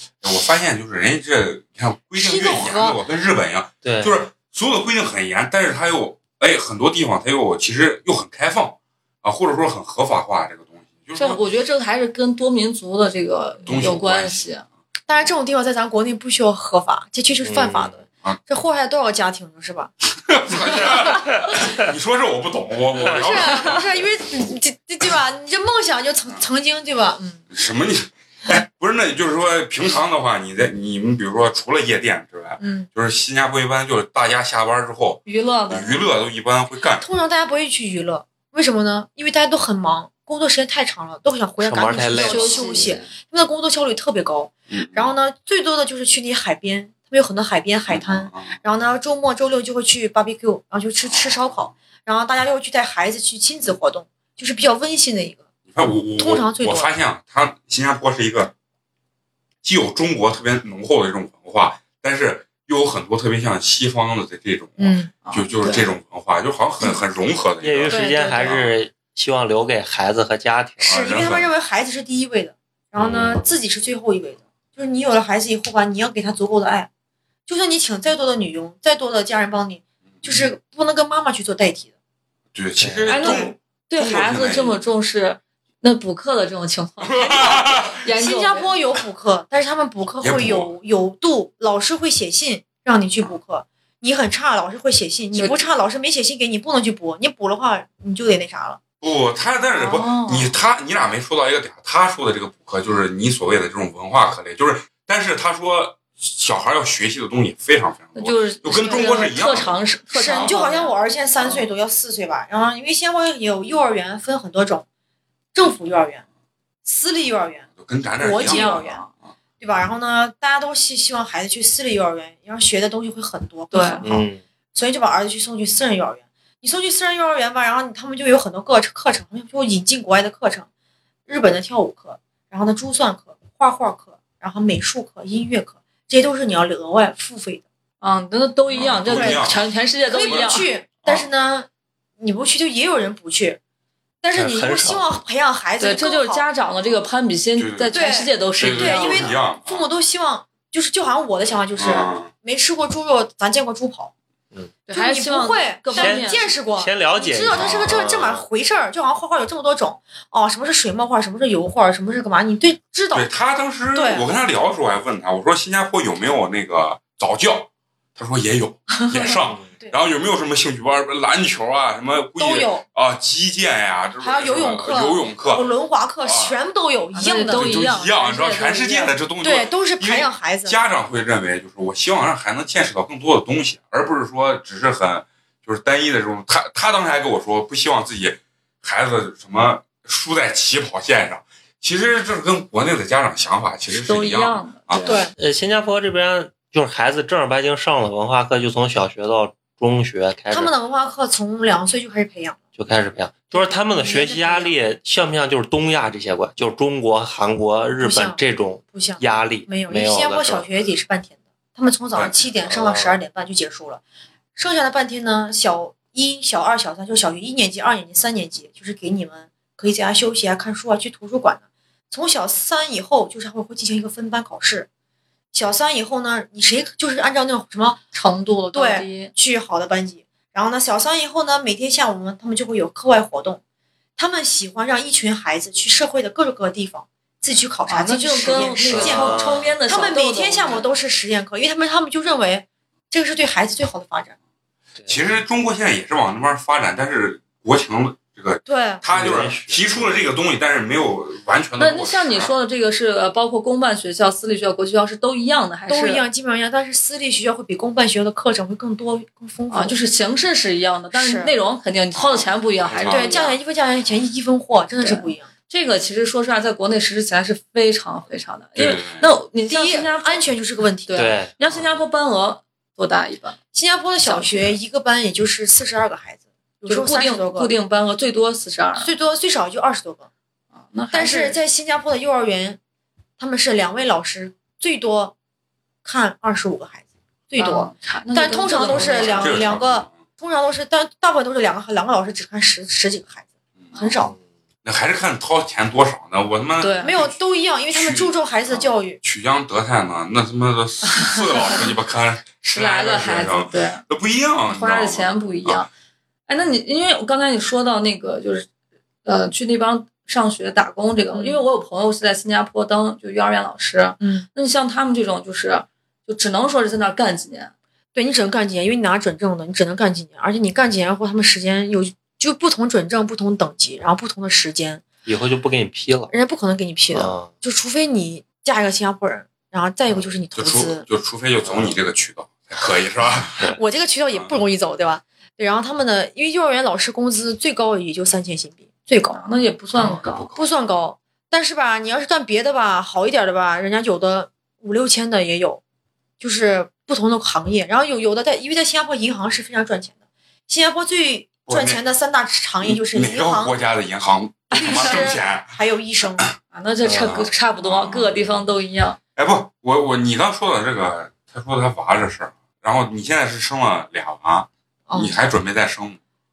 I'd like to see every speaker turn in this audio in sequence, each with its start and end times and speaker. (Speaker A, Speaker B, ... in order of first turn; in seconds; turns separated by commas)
Speaker A: 0.2-11.4, Speaker B: 2.2-3.0, Speaker C: 3.8-4.2, Speaker D: 11.2-14.6, Speaker A: 13.6-14.5, Speaker B: 15.1-19.9, Speaker C: 17.4-18.0, Speaker A: 20.2-23.9, Speaker B: 23.1-27.4, Speaker A: 27.5-37.0, Speaker B: 32.6-32.9, Speaker D: 35.2-35.9, Speaker B: 37.0-55.4, Speaker C: 41.6-43.0, Speaker D: 42.2-43.1, Speaker A: 44.7-45.1, Speaker A: 47.9-48.6, Speaker A: 51.0-51.7, Speaker A: 55.7-58.5, Speaker B: 56.1-56.9, Speaker A: 59.6-68.7, Speaker B: 64.8-65.1, Speaker D: 65.2-65.9, Speaker C: 67.6-70.9, Speaker B: 67.9-68.5, Speaker A: 70.8-71.5, Speaker B: 70.9-76.9, Speaker A: 73.0-73.4, Speaker B: 77.5-81.9, Speaker A: 82.5-84.8, Speaker C: 82.8-83.4, Speaker D: 83.1-88.7, Speaker A: 87.0-88.0, Speaker B: 88.2-98.8, Speaker A: 90.2-90.7, Speaker A: 99.0-110.6, Speaker D: 99.8-100.5, Speaker D: 108.2-110.9, Speaker B: 108.7-109.2, Speaker B: 110.1-114.8, Speaker B: 115.5-116.2, Speaker B: 116.8-117.7, Speaker A: 117.7-119.3, Speaker B: 118.2-119.0, Speaker D: 118.4-119.1, Speaker B: 119.6-124.2, Speaker D: 123.7-124.0, Speaker C: 124.0-124.4, Speaker B: 124.7-130.7, Speaker B: 131.3-137.6, Speaker D: 138.0-140.7, Speaker A: 138.7-139.6, Speaker B: 139.1-139.4, Speaker B: 140.0-141.7, Speaker A: 140.2-141.3, Speaker B: 142.2-143.6, Speaker B: 144.2-146.4, Speaker C: 144.3-145.2, Speaker D: 145.8-149.3, Speaker A: 147.6-149.8, Speaker B: 147.9-154.1, Speaker A: 151.8-152.3, Speaker D: 154.9-156.4, Speaker B: 154.9-163.3, Speaker C: 155.9-158.4, Speaker A: 157.5-157.9, Speaker A: 163.1-175.7, Speaker B: 163.9-164.2, Speaker B: 172.4-172.8, Speaker B: 174.2-177.8, Speaker A: 176.2-176.6, Speaker D: 177.1-179.1, Speaker A: 177.5-195.1, Speaker B: 179.4-180.8, Speaker D: 193.9-195.2, Speaker B: 195.0-195.3, Speaker C: 195.3-200.7, Speaker B: 200.5-202.6, Speaker C: 202.8-210.7, Speaker B: 203.5-204.8, Speaker B: 208.0-208.4, Speaker B: 208.9-214.0, Speaker C: 212.7-213.2, Speaker B: 214.5-224.9, Speaker B: 225.5-228.0, Speaker D: 228.1-229.3, Speaker B: 228.7-233.6, Speaker B: 234.2-244.3, Speaker D: 237.9-240.8, Speaker C: 238.6-239.8, Speaker A: 245.1-252.5, Speaker B: 248.7-249.0, Speaker C: 249.1-250.2, Speaker D: 251.8-256.2, Speaker B: 255.9-259.9, Speaker D: 259.7-263.6, Speaker B: 261.1-261.5, Speaker A: 262.1-263.4, Speaker B: 263.1-265.5, Speaker D: 265.0-270.5, Speaker A: 268.8-269.2, Speaker B: 269.7-271.3, Speaker D: 271.1-273.6, Speaker C: 271.1-271.6, Speaker B: 273.7-277.7, Speaker D: 274.2-274.7, Speaker D: 276.8-279.1, Speaker B: 279.0-280.2, Speaker D: 280.8-281.6, Speaker B: 281.1-282.8, Speaker B: 283.4-285.3, Speaker B: 286.0-294.3, Speaker D: 287.6-289.6, Speaker A: 288.9-290.1, Speaker A: 293.8-294.1, Speaker A: 294.8-297.4, Speaker D: 296.8-297.1, Speaker B: 297.0-299.2, Speaker A: 297.9-305.9, Speaker D: 301.1-301.9, Speaker D: 302.6-304.0, Speaker D: 304.7-305.9, Speaker D: 306.5-308.7, Speaker D: 309.2-317.7, Speaker B: 311.3-311.6, Speaker B: 314.2-314.4, Speaker B: 318.1-325.0, Speaker C: 325.2-326.3, Speaker B: 326.3-331.1, Speaker C: 327.1-327.5, Speaker A: 330.6-333.8, Speaker C: 331.6-331.9, Speaker B: 333.7-339.4, Speaker D: 339.3-340.5, Speaker A: 339.9-340.7, Speaker B: 340.5-345.8, Speaker B: 346.4-350.1, Speaker B: 350.7-353.7, Speaker A: 351.7-352.0, Speaker A: 352.8-355.7, Speaker B: 354.7-356.4, Speaker D: 354.8-355.3, Speaker D: 356.7-359.2, Speaker C: 357.0-357.4, Speaker A: 357.2-358.5, Speaker A: 359.4-366.2, Speaker B: 365.1-365.3